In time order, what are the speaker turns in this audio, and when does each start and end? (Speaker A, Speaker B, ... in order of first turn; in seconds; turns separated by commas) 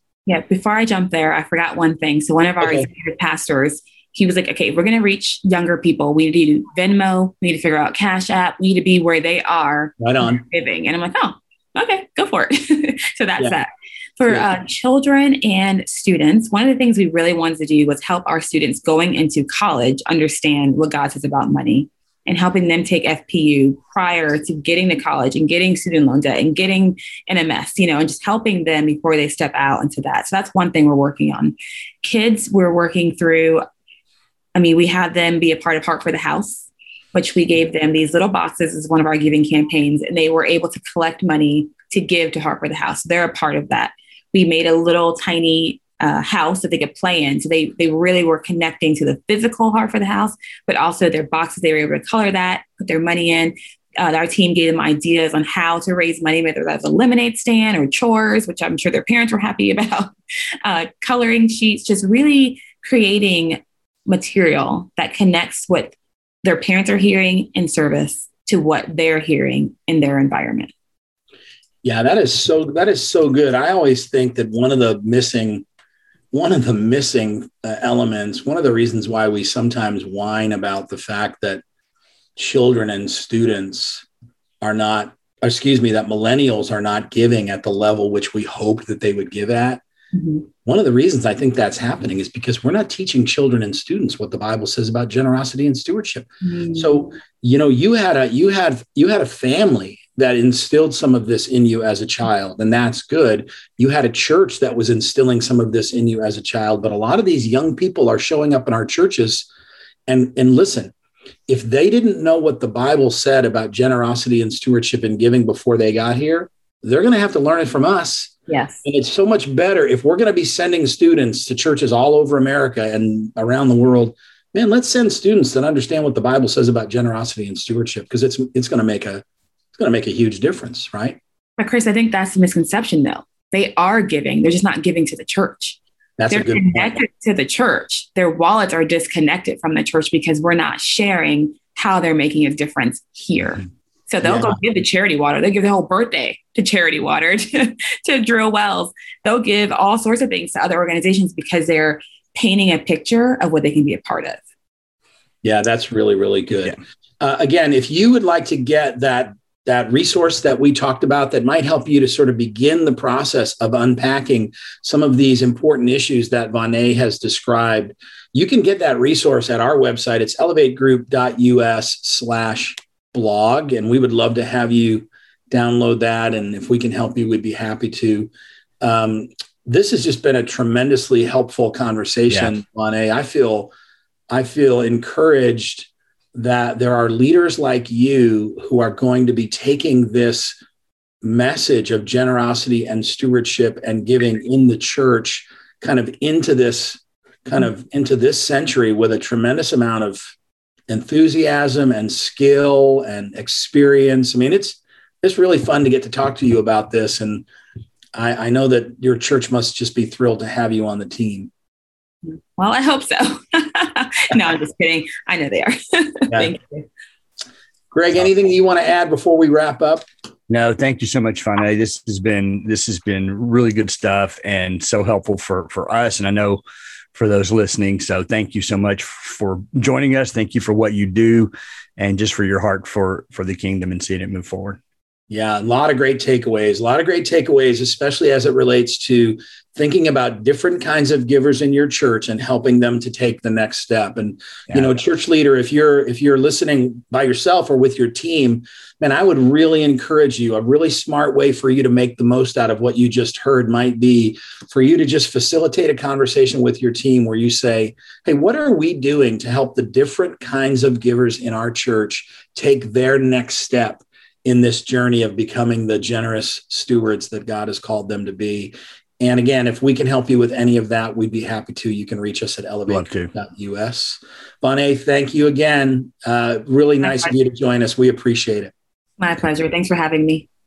Speaker A: 0.3-33.6, Speaker B: 2.6-2.9, Speaker B: 10.0-10.4, Speaker A: 34.5-60.1, Speaker A: 60.6-70.7, Speaker B: 71.8-75.7, Speaker B: 76.3-81.6, Speaker B: 82.4-84.1, Speaker B: 84.6-89.8, Speaker A: 90.1-90.5, Speaker B: 90.6-109.5, Speaker A: 96.4-97.1, Speaker B: 110.1-110.9, Speaker B: 111.5-129.2, Speaker A: 118.5-118.8, Speaker B: 129.8-131.2, Speaker A: 131.6-135.8, Speaker B: 136.2-137.0, Speaker A: 136.3-154.4, Speaker B: 144.2-144.6, Speaker B: 155.4-178.3, Speaker B: 178.8-183.7, Speaker B: 184.3-190.6, Speaker B: 191.2-200.3, Speaker B: 200.9-207.5, Speaker B: 208.2-211.5, Speaker A: 212.6-216.9, Speaker B: 217.9-220.1, Speaker C: 220.5-226.6, Speaker C: 227.2-234.8, Speaker B: 235.3-278.7, Speaker C: 272.9-273.3, Speaker A: 277.0-277.3, Speaker A: 279.2-280.5